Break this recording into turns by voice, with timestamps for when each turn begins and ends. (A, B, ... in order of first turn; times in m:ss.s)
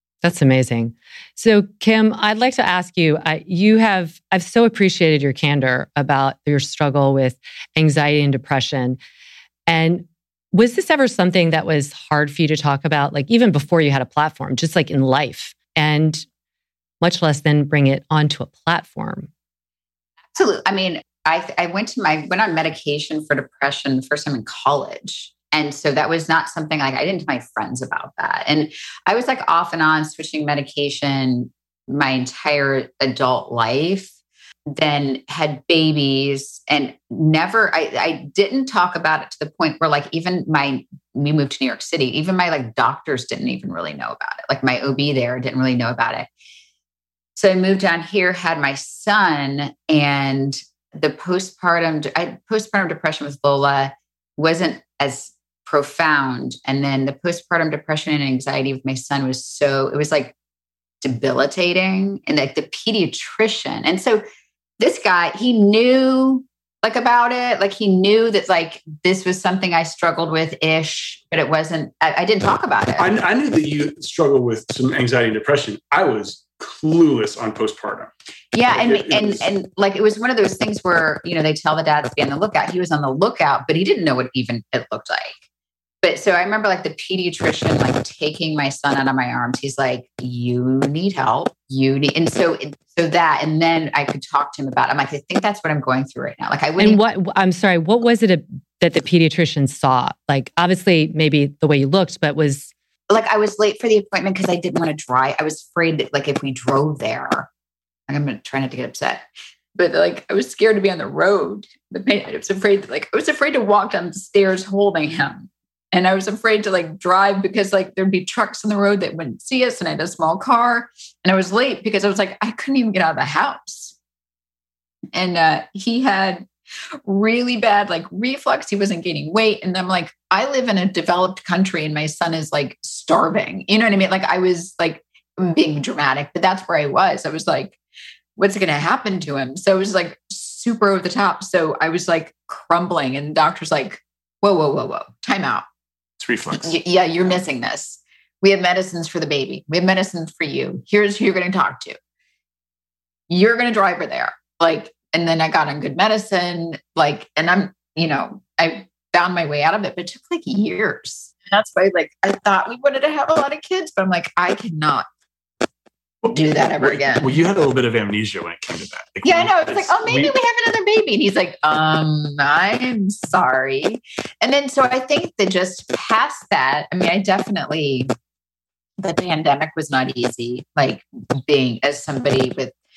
0:00.2-0:09.0 A
0:09.7-0:16.3 A
0:17.0-0:19.3 A
0:20.4-0:34.1 B
0:34.7-0:46.3 B
0:47.4-1:00.3 B
1:01.0-1:04.2 B
1:04.8-1:13.1 B
1:13.0-1:18.1 C
1:18.5-1:25.3 B
1:18.7-1:19.5 C
1:26.0-1:37.0 B
1:36.8-1:42.7 A
1:43.1-1:47.5 B
1:48.1-1:49.2 B
1:49.8-2:03.9 B
2:05.1-2:06.5 B
2:07.1-2:17.8 B
2:18.4-2:25.6 B
2:26.2-2:26.8 C
2:26.5-2:32.0 B
2:33.3-2:45.1 B
2:46.3-2:47.4 B
2:46.8-2:50.3 C
2:49.2-2:58.1 B
2:59.0-3:02.7 B